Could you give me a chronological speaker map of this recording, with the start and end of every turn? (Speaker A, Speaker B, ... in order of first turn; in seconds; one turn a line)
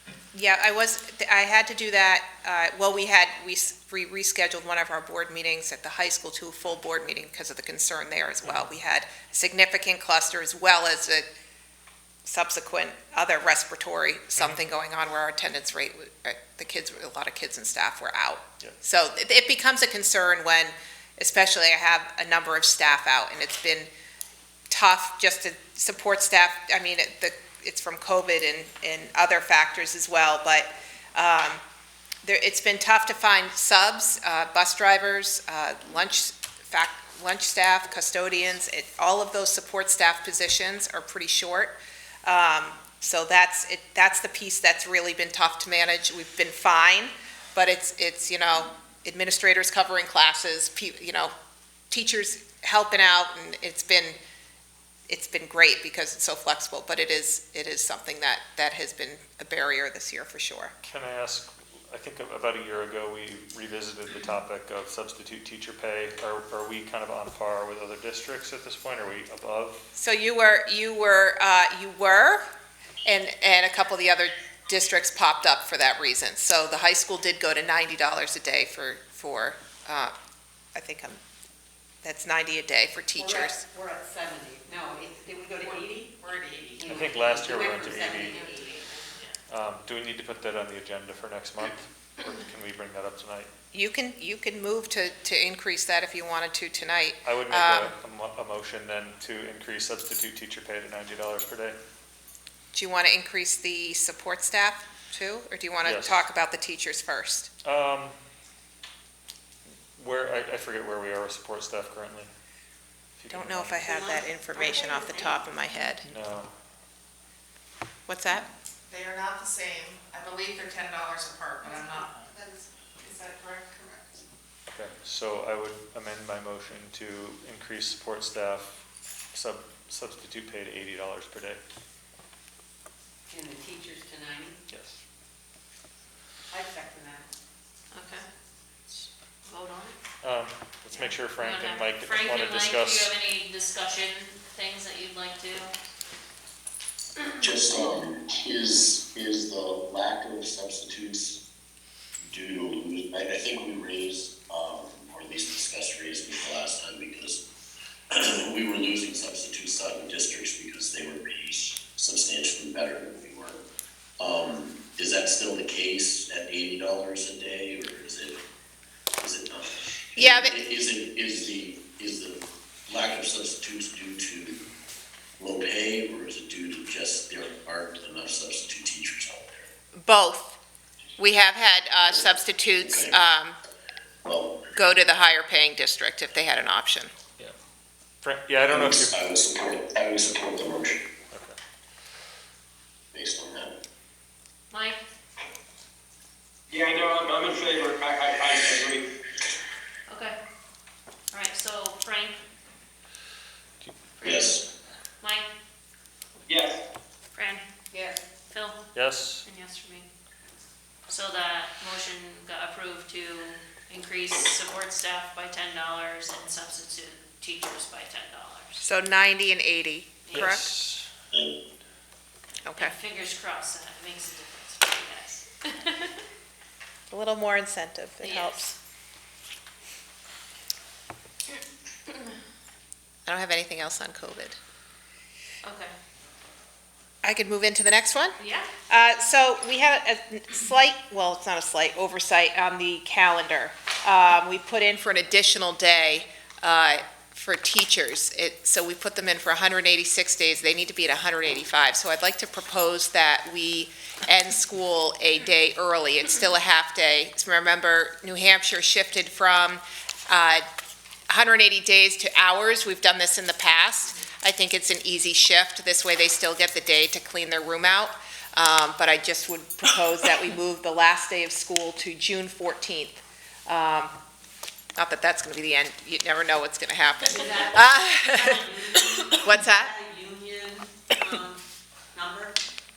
Speaker A: 0.3-11.2
Speaker B: 8.4-8.7
Speaker A: 12.2-23.9
Speaker A: 24.7-31.6
Speaker A: 32.2-51.3
Speaker A: 51.9-54.2
Speaker A: 55.1-60.7
Speaker B: 60.8-69.9
Speaker A: 70.0-72.4
Speaker A: 73.0-80.1
Speaker A: 80.8-81.2
Speaker A: 82.0-83.6
Speaker C: 83.2-89.1
Speaker D: 86.2-86.6
Speaker B: 86.8-88.4
Speaker B: 89.5-93.5
Speaker A: 93.7-97.9
Speaker B: 97.2-101.8
Speaker A: 102.7-107.5
Speaker B: 105.8-106.2
Speaker B: 107.6-108.2
Speaker B: 110.0-112.3
Speaker B: 113.2-113.9
Speaker A: 113.3-116.1
Speaker C: 113.9-115.5
Speaker B: 116.1-116.5
Speaker A: 118.1-118.5
Speaker D: 118.9-124.2
Speaker B: 124.7-131.6
Speaker C: 133.3-134.6
Speaker B: 134.7-135.0
Speaker C: 136.5-137.3
Speaker E: 137.9-138.3
Speaker E: 138.9-140.0
Speaker B: 140.2-143.1
Speaker E: 141.0-145.7
Speaker F: 147.4-151.4
Speaker F: 152.3-157.4
Speaker F: 158.1-163.6
Speaker F: 164.2-168.4
Speaker F: 169.2-174.6
Speaker A: 170.2-170.6
Speaker F: 175.4-179.7
Speaker A: 179.9-180.6
Speaker A: 181.2-183.6
Speaker F: 182.3-183.2
Speaker F: 184.2-184.7
Speaker A: 184.7-187.1
Speaker B: 188.2-189.1
Speaker F: 188.7-191.0
Speaker B: 191.3-191.6
Speaker F: 193.1-193.7
Speaker E: 194.7-195.0
Speaker G: 196.7-199.1
Speaker E: 200.1-200.4
Speaker E: 201.3-202.4
Speaker B: 203.8-204.3
Speaker E: 204.2-204.7
Speaker F: 204.2-204.6
Speaker E: 205.2-205.5
Speaker G: 206.5-206.8
Speaker E: 207.3-207.6
Speaker E: 208.5-208.8
Speaker B: 208.9-209.4
Speaker E: 209.4-210.1
Speaker E: 211.1-218.8
Speaker A: 218.8-220.7
Speaker B: 220.3-221.1
Speaker F: 221.3-221.6
Speaker A: 222.6-223.0
Speaker E: 222.8-226.2
Speaker A: 227.1-228.7
Speaker E: 228.2-228.7
Speaker A: 233.3-234.6
Speaker E: 235.6-235.9
Speaker A: 237.2-238.4
Speaker E: 238.4-238.7
Speaker A: 238.9-260.6
Speaker A: 261.3-274.1
Speaker A: 275.0-279.9
Speaker C: 277.2-281.6
Speaker C: 282.1-282.6